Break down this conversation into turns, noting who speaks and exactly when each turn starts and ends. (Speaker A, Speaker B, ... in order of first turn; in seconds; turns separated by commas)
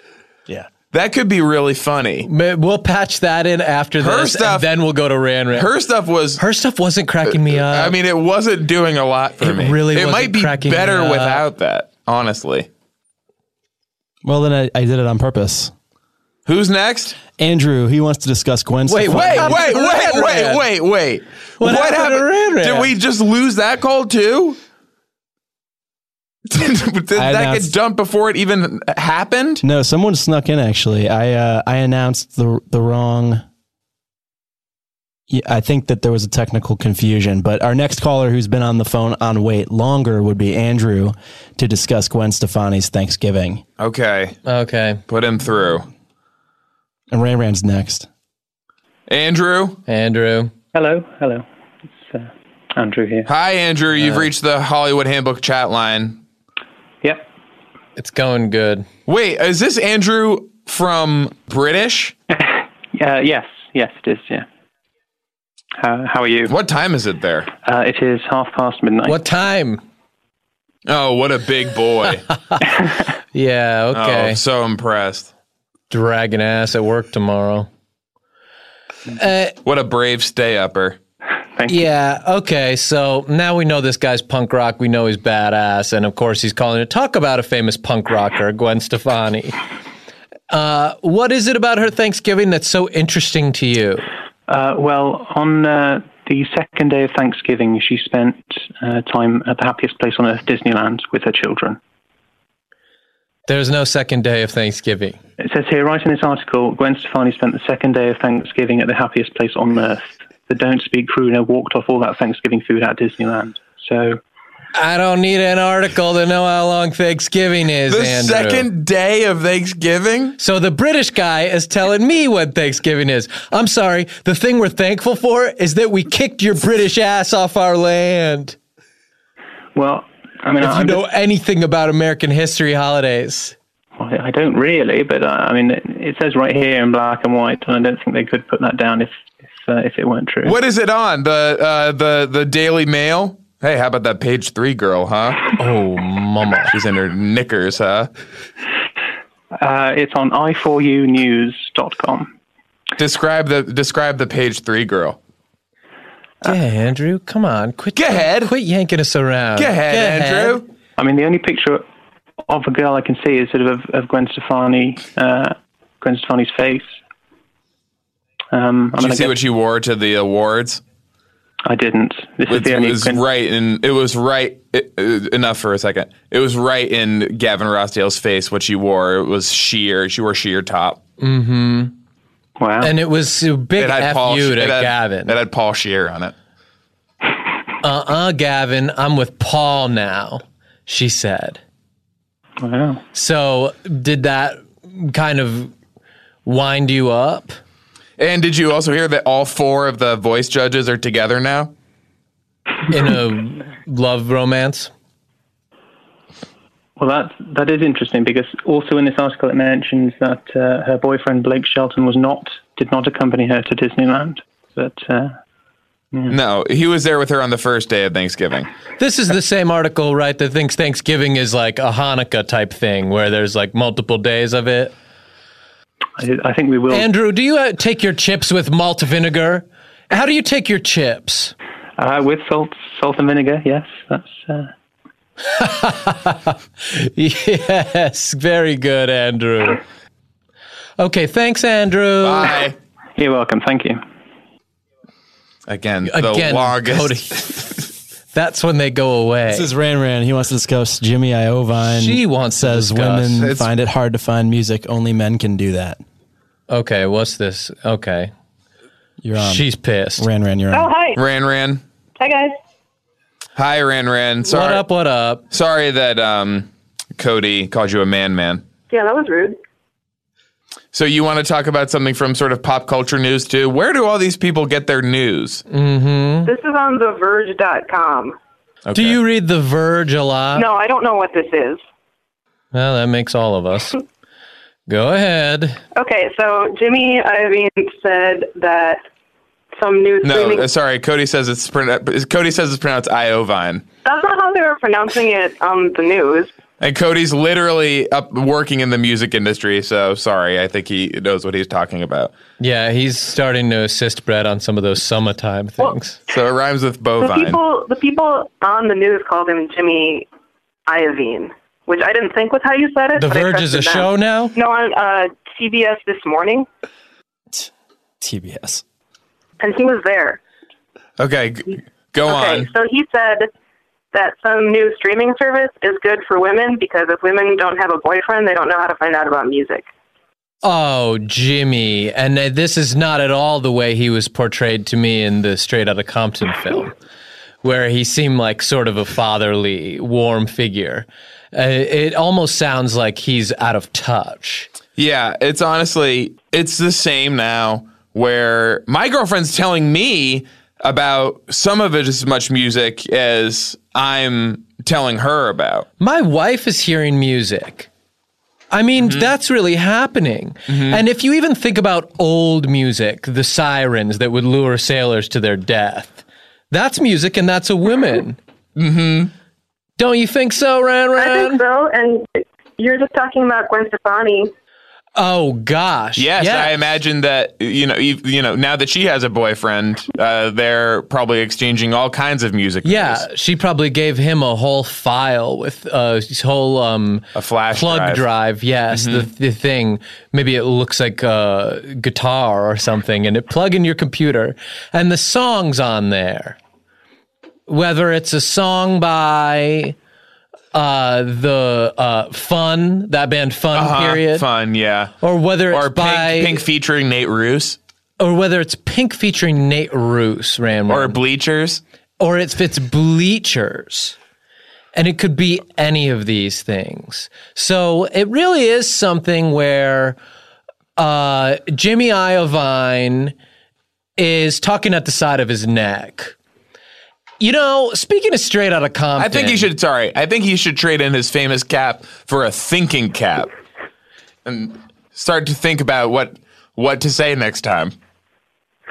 Speaker A: 0.9-2.3, Speaker B: 2.2-5.7, Speaker A: 4.0-4.7, Speaker A: 5.5-6.4, Speaker B: 6.4-7.9, Speaker A: 7.3-12.7, Speaker B: 9.4-11.4, Speaker C: 14.2-15.7, Speaker A: 16.4-17.2, Speaker C: 17.4-19.7, Speaker B: 18.9-20.6, Speaker A: 19.1-24.6, Speaker B: 21.6-22.9, Speaker A: 26.5-29.6, Speaker C: 27.1-27.7, Speaker C: 29.6-33.4, Speaker C: 35.3-43.6, Speaker A: 43.8-44.4, Speaker B: 44.5-45.0, Speaker A: 45.1-45.9, Speaker C: 47.1-48.1, Speaker A: 49.1-49.8, Speaker B: 49.9-50.5, Speaker D: 50.7-53.3, Speaker A: 53.2-56.2, Speaker B: 58.0-58.9, Speaker A: 59.1-62.1, Speaker D: 62.3-64.4, Speaker D: 65.8-66.5, Speaker A: 66.5-67.5, Speaker D: 67.6-69.2, Speaker B: 69.0-69.8, Speaker A: 70.8-72.2, Speaker B: 73.3-74.4, Speaker A: 73.9-75.3, Speaker B: 75.9-77.7, Speaker B: 79.2-79.5, Speaker A: 79.6-81.0, Speaker D: 81.5-81.8, Speaker B: 81.7-89.6, Speaker B: 90.5-94.1, Speaker D: 94.5-101.8, Speaker B: 103.5-105.2, Speaker D: 105.4-114.2, Speaker B: 114.7-118.7, Speaker A: 117.9-120.4, Speaker B: 120.4-128.6, Speaker D: 129.7-131.0, Speaker B: 130.6-133.5, Speaker D: 134.0-140.6, Speaker A: 140.4-145.5, Speaker B: 145.6-146.7, Speaker A: 146.7-148.1, Speaker D: 149.6-152.3, Speaker A: 153.0-155.2, Speaker B: 156.4-160.6, Speaker A: 157.9-158.5, Speaker A: 159.6-160.6, Speaker D: 161.0-161.8, Speaker D: 162.5-166.9, Speaker D: 168.5-169.3, Speaker A: 169.0-170.8, Speaker D: 171.7-173.2, Speaker A: 172.5-181.0, Speaker B: 181.2-181.9, Speaker D: 182.6-182.9, Speaker B: 182.8-185.3, Speaker A: 183.8-186.3, Speaker B: 187.8-191.6, Speaker D: 192.6-193.0, Speaker B: 193.1-195.7, Speaker B: 196.4-197.6, Speaker A: 198.2-201.7, Speaker B: 202.9-204.9, Speaker D: 207.0-215.4, Speaker A: 216.3-218.7, Speaker B: 219.0-224.9, Speaker D: 226.2-227.1, Speaker B: 226.9-231.5, Speaker D: 232.0-234.7, Speaker B: 235.5-239.8, Speaker B: 241.0-242.6, Speaker A: 242.2-242.8, Speaker D: 243.2-244.0, Speaker A: 245.7-247.6, Speaker B: 246.0-247.6, Speaker B: 248.3-249.7, Speaker C: 249.5-256.0, Speaker B: 251.9-253.5, Speaker B: 256.7-258.3, Speaker C: 259.2-259.6, Speaker B: 259.4-260.3, Speaker C: 260.2-260.9, Speaker E: 260.7-261.2, Speaker A: 261.1-261.8, Speaker E: 262.2-262.5, Speaker A: 263.6-264.8, Speaker B: 264.4-265.4, Speaker A: 265.5-268.6, Speaker E: 268.9-269.6, Speaker A: 270.9-275.6, Speaker B: 275.7-276.5, Speaker E: 276.4-278.4, Speaker A: 278.9-279.2, Speaker B: 278.9-280.7, Speaker E: 280.5-281.8, Speaker B: 282.7-284.0, Speaker B: 284.9-285.8, Speaker E: 285.9-289.0, Speaker E: 289.8-290.7, Speaker A: 290.2-293.8, Speaker E: 294.0-296.5, Speaker A: 296.8-302.3, Speaker B: 302.6-306.2, Speaker A: 306.3-307.6, Speaker E: 307.2-310.3, Speaker E: 310.9-316.7, Speaker B: 313.1-314.5, Speaker C: 318.2-318.8, Speaker E: 319.6-320.4, Speaker A: 321.2-322.7, Speaker E: 322.2-323.5, Speaker E: 324.1-329.9, Speaker B: 330.6-336.9, Speaker B: 337.6-344.7, Speaker A: 345.0-355.9, Speaker B: 356.0-357.9, Speaker B: 358.7-368.4, Speaker A: 359.0-359.3, Speaker A: 360.7-361.0, Speaker A: 368.8-369.3, Speaker B: 370.0-371.6, Speaker E: 371.2-374.5, Speaker B: 375.1-376.7, Speaker A: 376.2-383.2, Speaker B: 382.8-396.6, Speaker A: 387.3-388.2, Speaker A: 388.9-389.3, Speaker B: 397.7-399.9, Speaker B: 400.7-404.4, Speaker A: 403.7-405.1, Speaker B: 405.2-406.6, Speaker A: 405.7-407.8, Speaker B: 408.2-411.2, Speaker A: 410.9-411.8, Speaker B: 412.2-414.1, Speaker B: 414.9-420.1, Speaker B: 421.0-423.3, Speaker B: 424.2-426.3, Speaker B: 427.4-429.7, Speaker A: 429.2-433.5, Speaker A: 434.4-437.9